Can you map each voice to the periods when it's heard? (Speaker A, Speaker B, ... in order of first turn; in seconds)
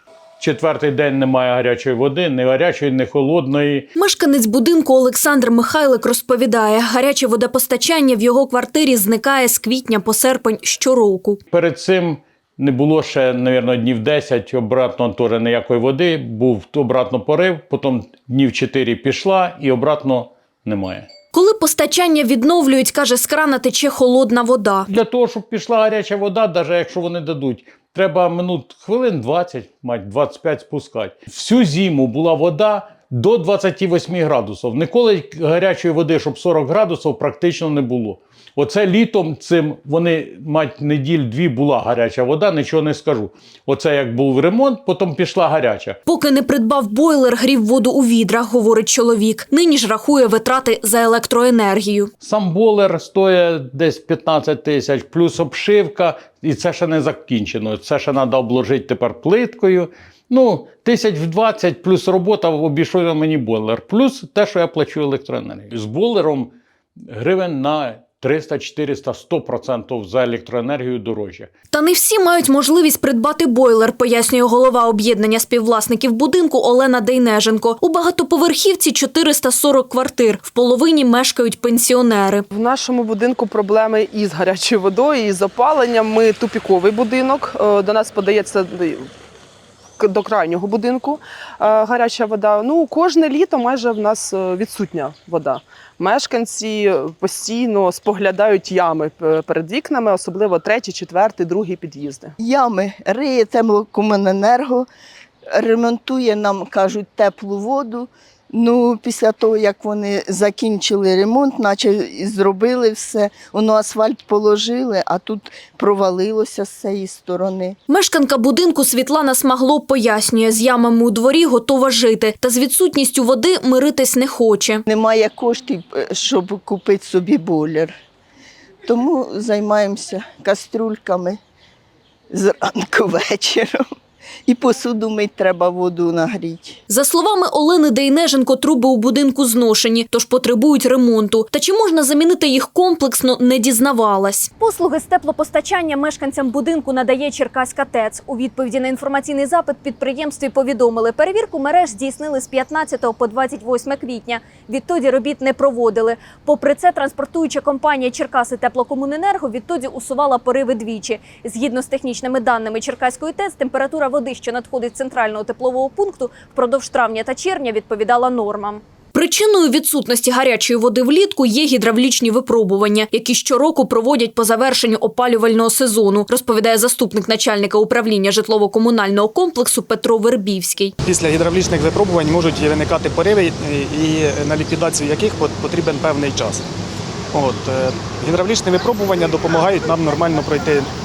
Speaker A: 0.4-3.9, 11.5-21.1, 24.9-46.0, 52.2-66.5, 67.1-71.5
Speaker B: 4.0-11.4, 21.3-24.9, 46.1-52.1, 71.7-82.5, 117.9-124.8, 136.9-180.9
Speaker C: 82.5-89.1, 90.0-102.3
Speaker D: 102.4-104.9, 105.5-117.8, 124.9-128.0, 128.8-131.4, 132.3-133.8, 134.5-136.8
Speaker E: 181.1-186.7, 187.3-190.9